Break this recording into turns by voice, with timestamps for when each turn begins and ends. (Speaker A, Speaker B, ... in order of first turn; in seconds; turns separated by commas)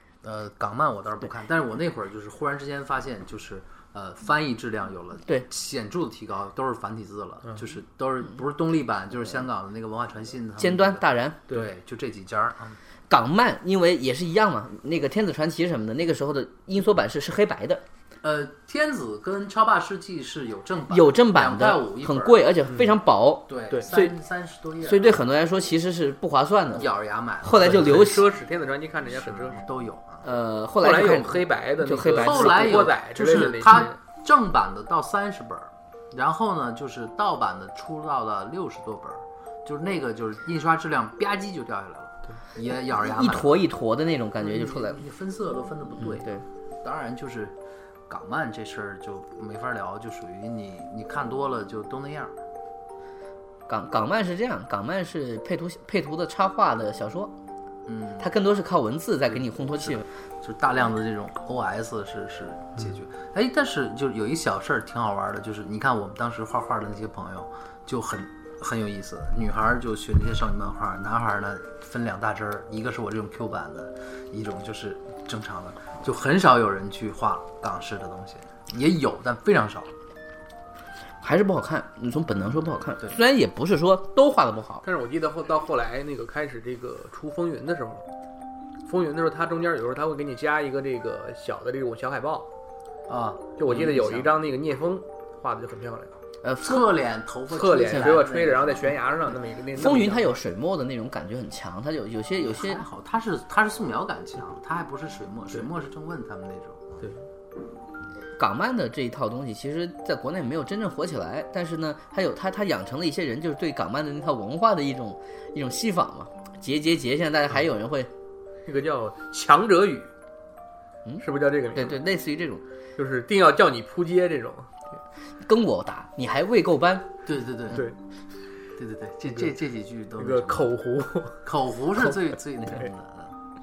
Speaker A: 0.2-12.8, Speaker B: 10.6-11.4, Speaker B: 13.1-17.8, Speaker A: 18.2-22.4, Speaker B: 20.9-24.1, Speaker A: 23.5-25.3, Speaker B: 24.8-26.9, Speaker A: 26.8-28.0, Speaker B: 27.4-28.2, Speaker C: 27.6-29.6, Speaker A: 29.1-30.2, Speaker B: 30.2-32.9, Speaker C: 30.8-34.0, Speaker A: 32.1-43.6, Speaker B: 43.0-45.0, Speaker A: 44.4-47.5, Speaker B: 46.0-46.4, Speaker A: 48.1-52.3, Speaker B: 53.7-57.3, Speaker A: 57.9-58.3, Speaker B: 58.2-60.0, Speaker A: 59.3-79.9, Speaker B: 81.2-84.8, Speaker C: 84.8-88.0, Speaker C: 88.8-92.5, Speaker A: 93.1-94.3, Speaker C: 93.6-96.1, Speaker B: 96.4-96.8, Speaker A: 96.6-99.0, Speaker C: 97.5-100.4, Speaker B: 99.8-102.8, Speaker A: 102.4-107.0, Speaker B: 108.3-118.1, Speaker C: 118.6-120.1, Speaker C: 121.2-122.0, Speaker B: 121.7-122.6, Speaker C: 123.0-124.7, Speaker B: 125.4-127.1, Speaker A: 127.2-127.9, Speaker C: 127.7-128.0, Speaker A: 128.8-130.7, Speaker C: 130.2-131.4, Speaker A: 131.4-133.3